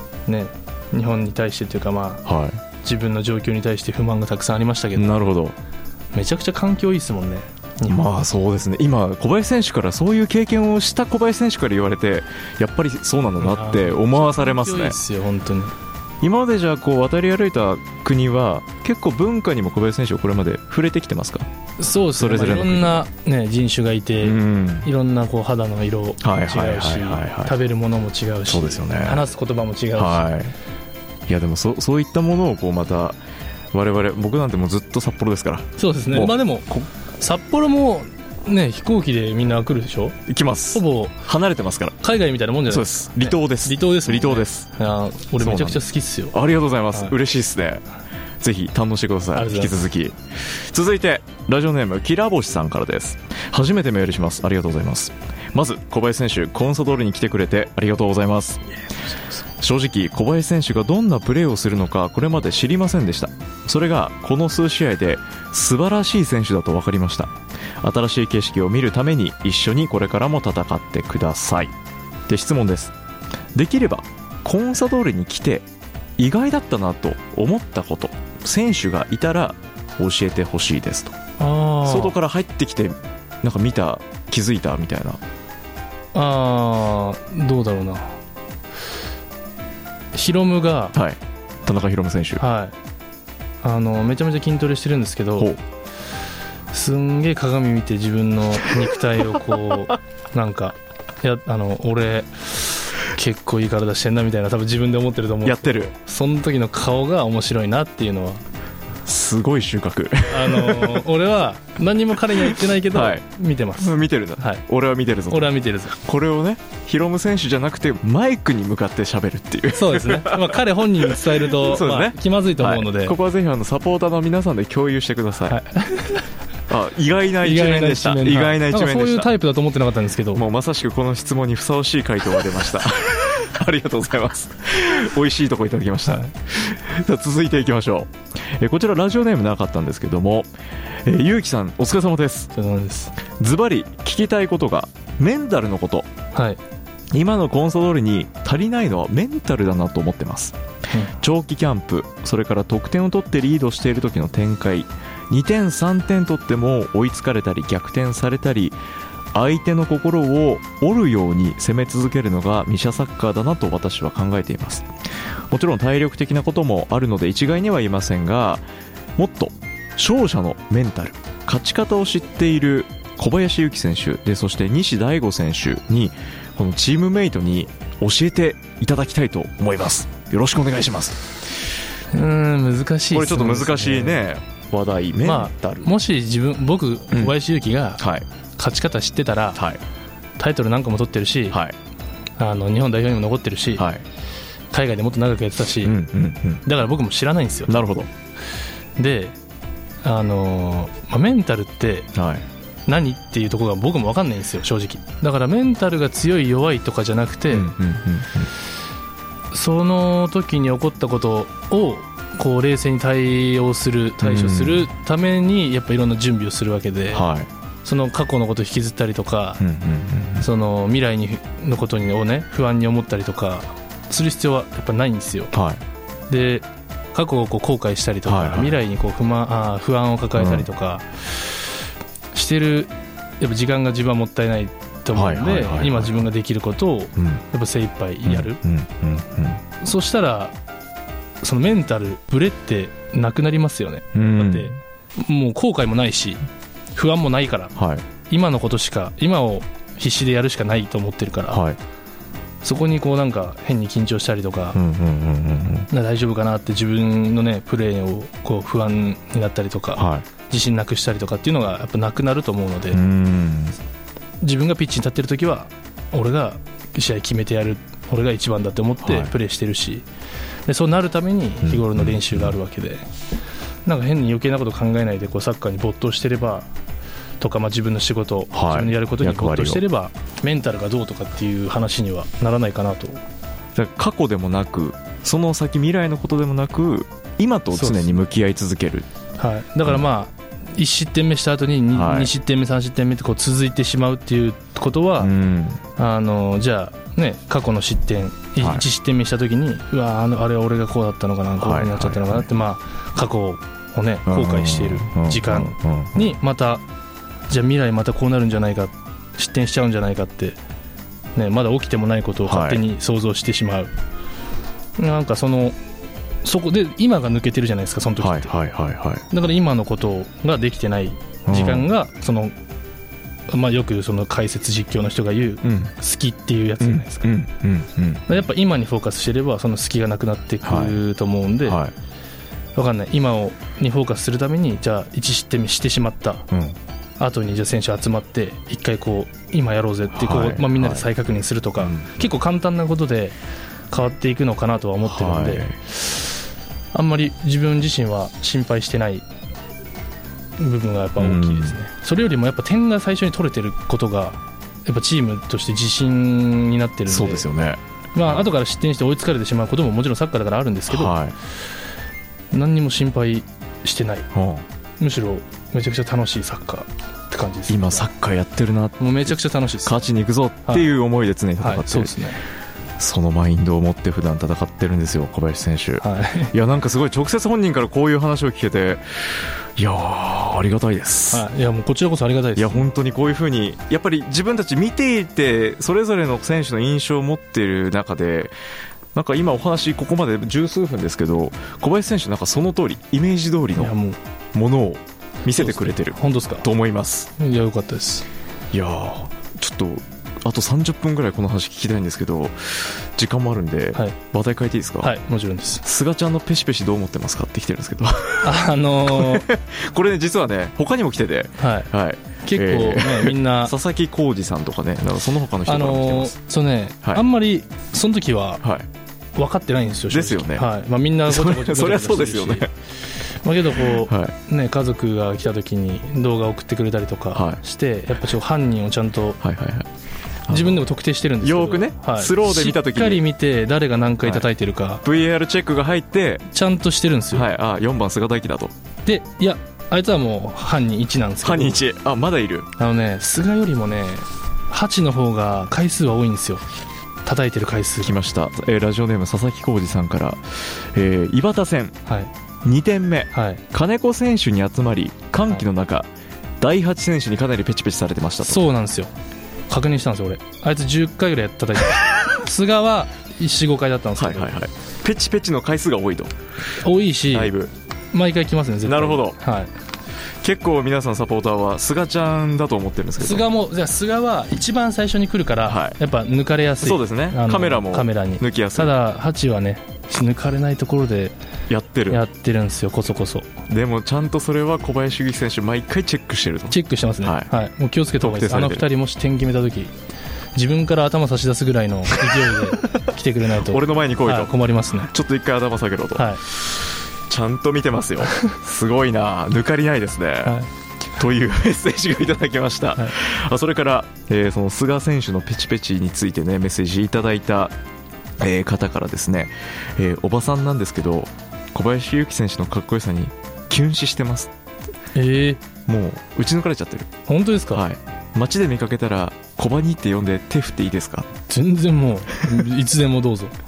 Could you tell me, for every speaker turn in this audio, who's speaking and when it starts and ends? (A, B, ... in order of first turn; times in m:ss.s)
0:00.2-0:02.2 A
0:02.2-0:02.6 B
0:02.8-0:05.2 A
0:05.0-0:05.6 B
0:06.1-0:08.0 A
0:07.9-0:15.0 B
0:13.4-0:15.7 A
0:16.2-0:21.5 B
0:21.8-0:30.3 A
0:22.1-0:23.0 B
0:24.2-0:24.9 B
0:26.2-0:27.6 B
0:28.5-0:29.2 B
0:30.0-0:30.5 B
0:31.3-0:33.2 B
0:33.7-0:36.8 B
0:35.8-0:40.2 A
0:40.3-0:42.0 B
0:40.7-0:41.2 A
0:42.0-0:46.3 A
0:42.7-0:44.7 B
0:45.4-0:47.8 B
0:48.4-0:58.6 B
0:49.3-0:49.8 A
0:59.6-1:11.7 B
1:12.3-1:12.9 B
1:13.5-1:15.7 B
1:16.2-1:21.2 B
1:21.4-1:22.2 A
1:21.8-1:25.2 B
1:26.1-1:28.2 A
1:30.1-1:31.0 A
1:30.9-1:32.4 B
1:32.4-1:32.7 A
1:33.6-1:35.5 A
1:36.7-1:48.4 A
1:45.4-1:45.9 B
1:49.0-1:51.0 B
1:50.3-1:54.6 A
1:52.4-1:53.2 B
1:53.8-2:05.6 B
1:55.3-1:56.0 A
1:59.7-2:03.2 A
2:05.5-2:06.2 A
2:06.7-2:09.3 B
2:07.4-2:10.4 A
2:10.3-2:20.5 B
2:21.0-2:22.5 B
2:22.5-2:23.1 A
2:23.3-2:26.1 B
2:26.3-2:26.6 A
2:27.1-2:30.6 B
2:31.2-2:38.8 B
2:39.3-2:44.9 B
2:45.5-2:48.6 B
2:49.2-3:01.2 B
3:02.1-3:04.2 A
3:03.1-3:05.9 B
3:05.2-3:08.0 A
3:08.0-3:08.2 B
3:08.6-3:09.6 A
3:09.6-3:09.8 B
3:10.4-3:11.6 A
3:12.4-3:13.8 A
3:13.8-3:14.0 B
3:14.7-3:16.0 A
3:15.8-3:16.6 B
3:16.6-3:17.8 A
3:17.7-3:18.1 B
3:19.0-3:19.4 A
3:20.0-3:22.1 A
3:22.1-3:22.4 B
3:22.9-3:27.7 A
3:27.5-3:28.5 B
3:29.5-3:37.2 A
3:34.2-3:34.9 B
3:37.1-3:37.5 B
3:37.8-3:39.6 A
3:39.6-3:40.5 B
3:40.4-3:45.5 A
3:45.5-3:45.8 B
3:46.3-3:51.6 A
3:48.3-3:48.8 B
3:50.4-3:50.7 B
3:52.3-3:58.6 A
3:55.1-3:56.2 B
3:57.2-3:57.4 B
3:58.2-3:59.6 B
3:59.8-4:00.5 A
4:01.4-4:07.7 A
4:04.1-4:04.8 B
4:07.8-4:08.0 B
4:08.3-4:11.6 A
4:11.5-4:11.8 B
4:12.6-4:14.8 A
4:14.7-4:15.9 B
4:15.9-4:23.0 A
4:20.0-4:20.2 B
4:22.9-4:23.8 B
4:24.4-4:30.0 A
4:29.0-4:29.3 B
4:30.7-4:33.0 A
4:31.6-4:32.6 B
4:33.8-4:36.7 A
4:37.4-4:43.2 A
4:38.5-4:39.8 B
4:43.7-4:49.1 B
4:47.7-4:48.1 A
4:49.4-4:55.3 A
4:51.9-4:52.3 B
4:55.2-4:55.8 B
4:56.0-5:06.8 A
4:58.6-4:58.8 B
5:01.6-5:02.4 B
5:04.2-5:06.3 B
5:07.5-5:10.6 A
5:11.4-5:13.9 A
5:12.4-5:12.8 B
5:15.0-5:15.8 A
5:16.4-5:18.5 A
5:18.2-5:19.2 B
5:19.3-5:22.5 A
5:21.5-5:21.9 B
5:23.5-5:27.3 A
5:25.6-5:25.9 B
5:26.8-5:28.4 B
5:28.3-5:31.8 A
5:30.6-5:31.0 B
5:31.6-5:31.9 B
5:32.8-5:36.5 A
5:36.5-5:36.8 B
5:37.2-5:43.4 A
5:40.1-5:41.0 B
5:41.8-5:42.1 B
5:43.9-5:45.7 A
5:45.0-5:45.8 B
5:46.9-5:49.2 A
5:50.6-5:57.4 A
5:51.2-5:51.8 B
5:57.1-5:58.5 B
5:58.1-6:01.1 A
6:00.9-6:01.3 B
6:02.5-6:04.3 A
6:04.3-6:04.6 B
6:05.0-6:08.1 A
6:07.7-6:12.2 B
6:09.0-6:10.0 A
6:11.6-6:12.4 A
6:13.0-6:21.4 B
6:16.0-6:16.5 A
6:21.3-6:22.9 A
6:22.6-6:28.5 B
6:29.1-6:33.9 B
6:33.8-6:34.2 A
6:34.5-6:37.3 B
6:35.6-6:36.7 A
6:37.4-6:38.2 A
6:38.7-6:45.2 B
6:45.0-6:45.8 A
6:45.8-6:56.4 B
6:48.4-6:49.4 A
6:51.6-6:51.9 A
6:52.4-6:53.7 A
6:55.6-6:58.6 A
6:58.6-6:58.9 B
6:59.4-7:02.7 A
7:00.1-7:00.7 B
7:01.2-7:02.7 B
7:03.4-7:09.4 A
7:03.8-7:04.3 B
7:07.3-7:07.6 B
7:09.4-7:09.9 B
7:10.5-7:10.8 B
7:10.5-7:15.0 A
7:11.4-7:13.2 B
7:15.0-7:16.4 B
7:16.5-7:17.5 A
7:17.3-7:18.7 B
7:19.0-7:21.8 A
7:21.4-7:22.7 B
7:22.8-7:26.6 A
7:27.2-7:28.1 A
7:28.0-7:32.0 B
7:32.0-7:32.3 A
7:32.6-7:36.1 B
7:33.3-7:33.6 A
7:36.6-7:38.6 B
7:38.4-7:39.1 A
7:39.7-7:44.6 A
7:44.2-7:46.3 B
7:46.8-7:47.5 A
7:47.3-7:47.7 B
7:48.1-7:49.7 A
7:48.8-7:49.4 B
7:50.4-7:53.4 B
7:53.2-8:01.3 A
7:55.6-7:56.0 B
7:56.8-7:58.9 B
8:01.7-8:02.2 B
8:02.1-8:03.5 A
8:03.7-8:07.5 B
8:06.7-8:09.9 A
8:08.2-8:08.8 B
8:10.5-8:15.1 A
8:12.2-8:13.0 B
8:13.6-8:20.6 B
8:16.1-8:16.4 A
8:18.3-8:18.5 A
8:20.4-8:20.7 A
8:21.2-8:27.7 B
8:28.4-8:34.5 B
8:35.1-8:35.6 A
8:35.8-8:37.1 B
8:37.3-8:37.8 A
8:37.7-8:41.3 B
8:41.5-8:43.5 A